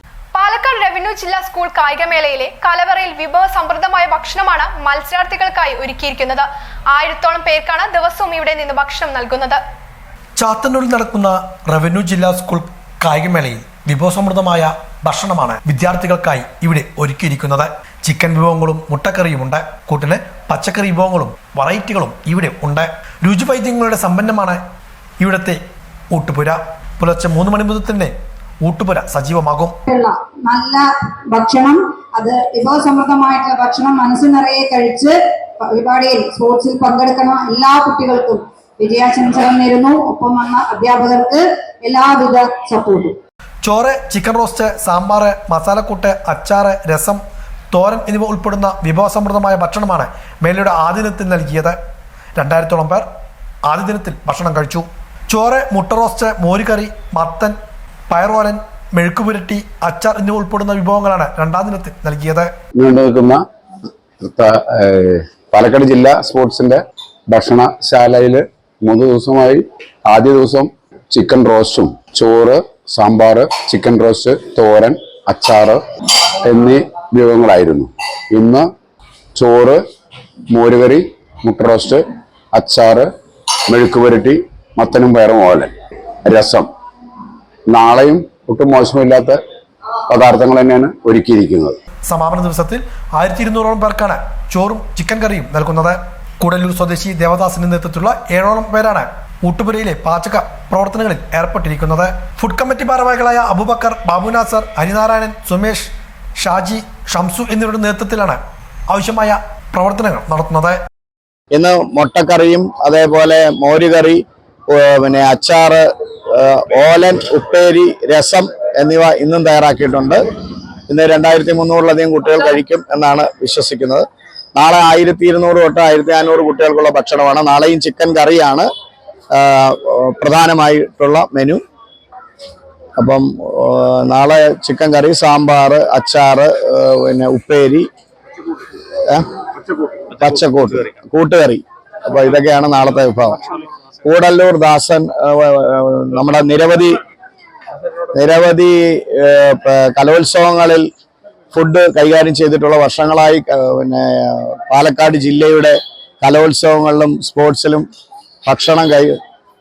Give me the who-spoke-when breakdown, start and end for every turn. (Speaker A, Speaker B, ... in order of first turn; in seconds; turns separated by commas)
Speaker A: 0.3-9.6, Speaker B: 10.4-24.6, Speaker B: 25.2-25.6, Speaker B: 26.1-28.1, Speaker B: 28.6-29.7, Speaker C: 29.9-43.2, Speaker B: 43.6-47.2, Speaker B: 47.7-51.8, Speaker B: 52.4-53.0, Speaker B: 53.7-57.5, Speaker B: 58.1-62.5, Speaker D: 62.8-63.4, Speaker D: 64.2-75.8, Speaker D: 76.4-78.7, Speaker D: 79.3-79.8, Speaker D: 80.5-83.1, Speaker D: 83.7-85.7, Speaker D: 86.2-86.7, Speaker D: 87.7-89.4, Speaker D: 90.1-91.8, Speaker B: 92.1-110.8, Speaker E: 111.5-120.2, Speaker E: 120.9-128.7, Speaker E: 129.3-131.6, Speaker E: 133.0-137.9, Speaker E: 140.1-143.4, Speaker E: 144.0-146.9, Speaker E: 148.1-150.9, Speaker E: 151.5-157.8, Speaker E: 158.4-159.2